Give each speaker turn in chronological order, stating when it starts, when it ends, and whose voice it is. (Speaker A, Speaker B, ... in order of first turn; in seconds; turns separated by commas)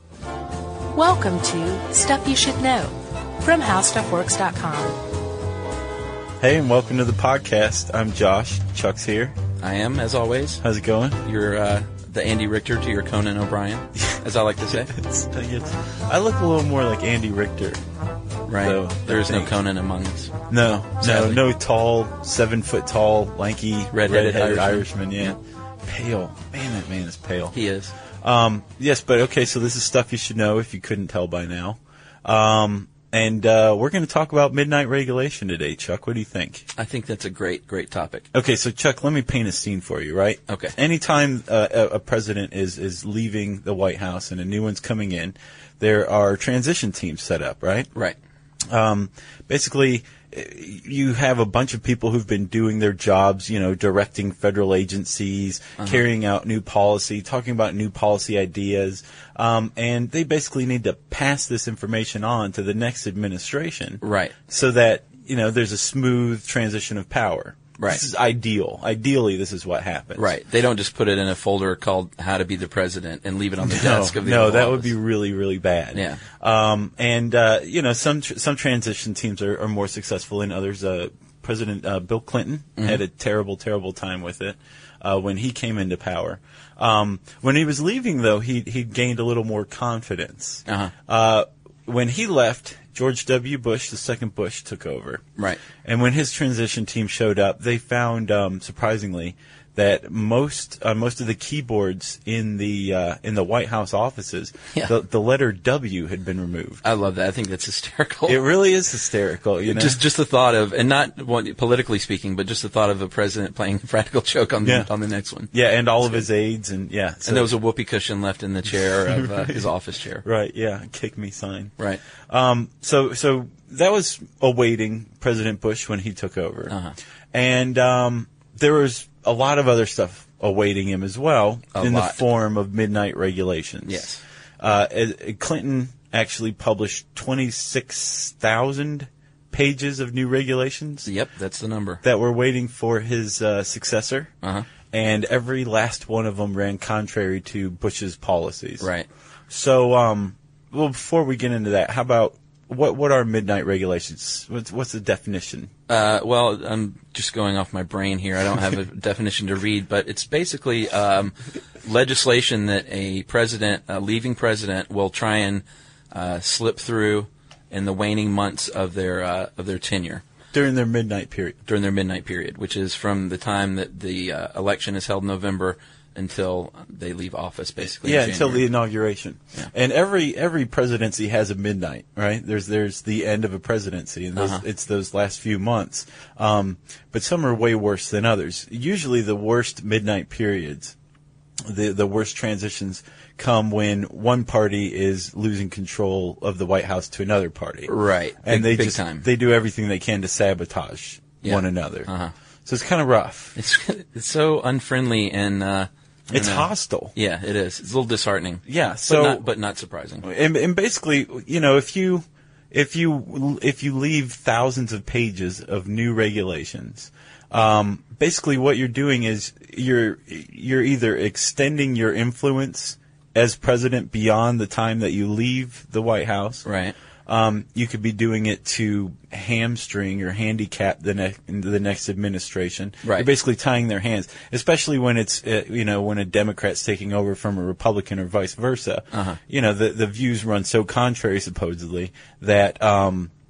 Speaker A: 0.9-5.0, Speaker B: 6.4-9.3, Speaker C: 9.6-10.6, Speaker B: 10.6-11.2, Speaker C: 11.2-14.9, Speaker B: 14.9-17.8, Speaker C: 18.4-20.3, Speaker B: 18.6-19.6, Speaker B: 20.5-27.5, Speaker C: 21.0-21.4, Speaker C: 23.9-24.9, Speaker C: 27.5-27.9, Speaker B: 28.2-36.7, Speaker C: 36.8-38.3, Speaker B: 38.3-47.9, Speaker C: 40.5-40.8, Speaker B: 48.7-70.3, Speaker C: 64.0-64.3, Speaker C: 70.2-74.9, Speaker B: 73.6-95.2, Speaker C: 75.9-76.2, Speaker C: 90.7-90.9, Speaker B: 95.8-106.8, Speaker C: 106.8-108.4, Speaker B: 108.3-110.0, Speaker C: 109.7-115.5, Speaker B: 114.6-114.9, Speaker B: 115.5-117.5, Speaker C: 117.2-120.2, Speaker B: 119.1-119.7, Speaker B: 120.2-121.7, Speaker B: 122.3-126.7, Speaker B: 127.3-134.1, Speaker C: 131.7-132.2, Speaker C: 133.8-134.2, Speaker B: 134.6-141.1, Speaker C: 141.1-142.0, Speaker B: 142.0-144.3, Speaker C: 144.4-144.7, Speaker B: 144.9-148.9, Speaker C: 148.8-149.1, Speaker B: 149.5-155.7, Speaker C: 155.9-170.2, Speaker B: 170.5-171.6, Speaker C: 171.7-178.7, Speaker B: 178.0-190.9, Speaker C: 184.3-184.6, Speaker B: 191.6-197.9, Speaker C: 197.9-199.3, Speaker B: 198.4-202.1, Speaker C: 201.4-202.3, Speaker B: 202.6-203.6, Speaker C: 203.6-210.2, Speaker B: 206.3-207.1, Speaker B: 208.7-209.4, Speaker B: 210.2-226.6, Speaker C: 226.6-226.9, Speaker B: 227.3-243.3, Speaker C: 239.1-239.4